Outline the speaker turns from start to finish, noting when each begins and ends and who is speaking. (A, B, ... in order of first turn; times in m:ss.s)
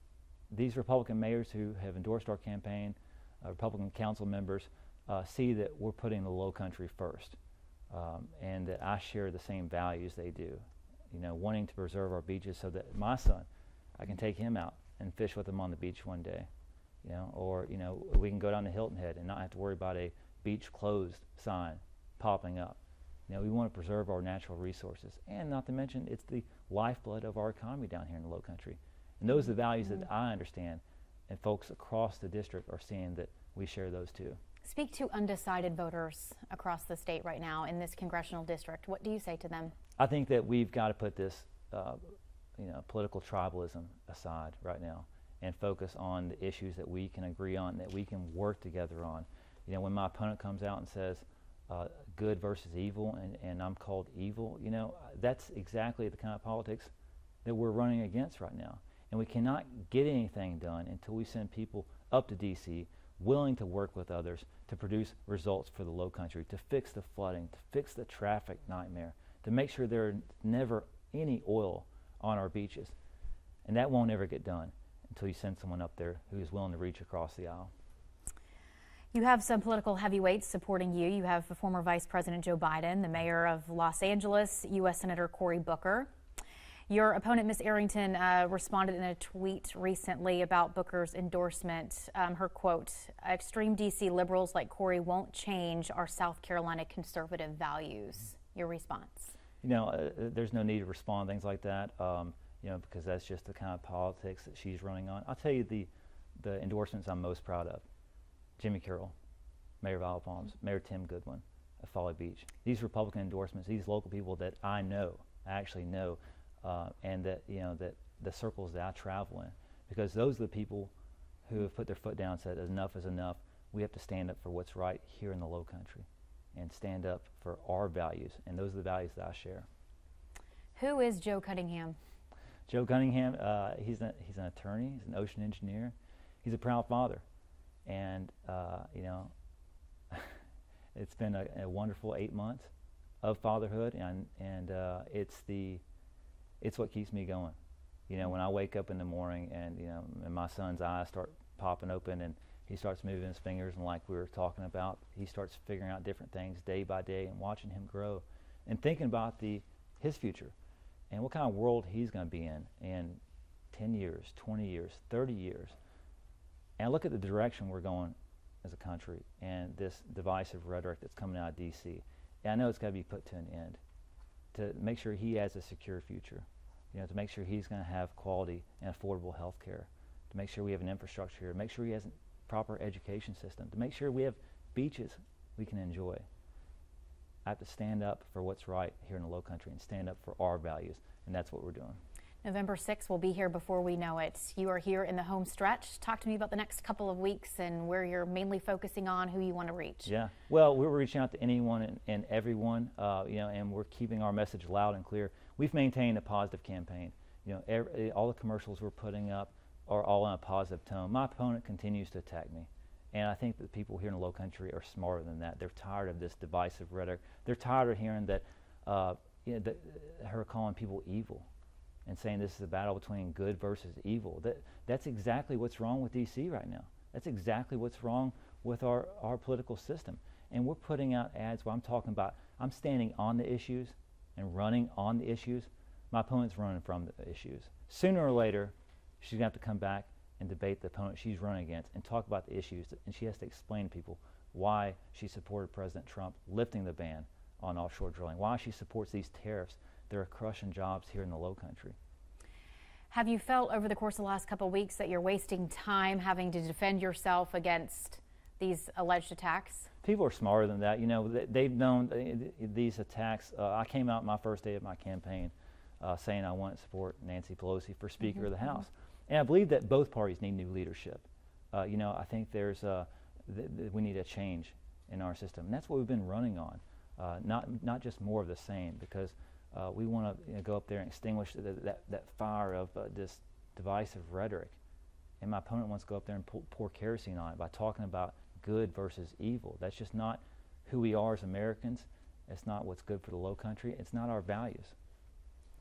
0:00.5-0:07.4 A
0:07.9-0:16.5 A
0:17.0-0:34.4 A
0:34.6-0:39.7 B
0:40.0-0:42.0 A
0:42.6-0:56.9 A
0:57.4-1:13.0 A
1:13.7-1:17.7 A
1:19.1-1:26.1 B
1:26.9-1:39.3 B
1:39.6-1:47.8 A
1:48.6-1:49.1 A
1:49.8-2:00.9 A
2:01.5-2:09.7 A
2:10.8-2:12.0 B
2:12.7-2:17.2 A
2:17.8-2:19.3 A
2:20.1-2:20.4 A
2:21.0-2:25.8 A
2:26.6-2:27.6 A
2:28.1-2:40.6 A
2:41.1-2:43.2 A
2:43.7-2:45.8 A
2:46.8-2:53.8 A
2:54.5-3:06.2 A
3:07.4-3:12.0 A
3:12.4-3:20.1 B
3:20.0-3:41.5 A
3:42.1-4:12.0 A
4:13.1-4:19.9 B
4:20.0-4:44.8 A
4:45.4-4:55.0 A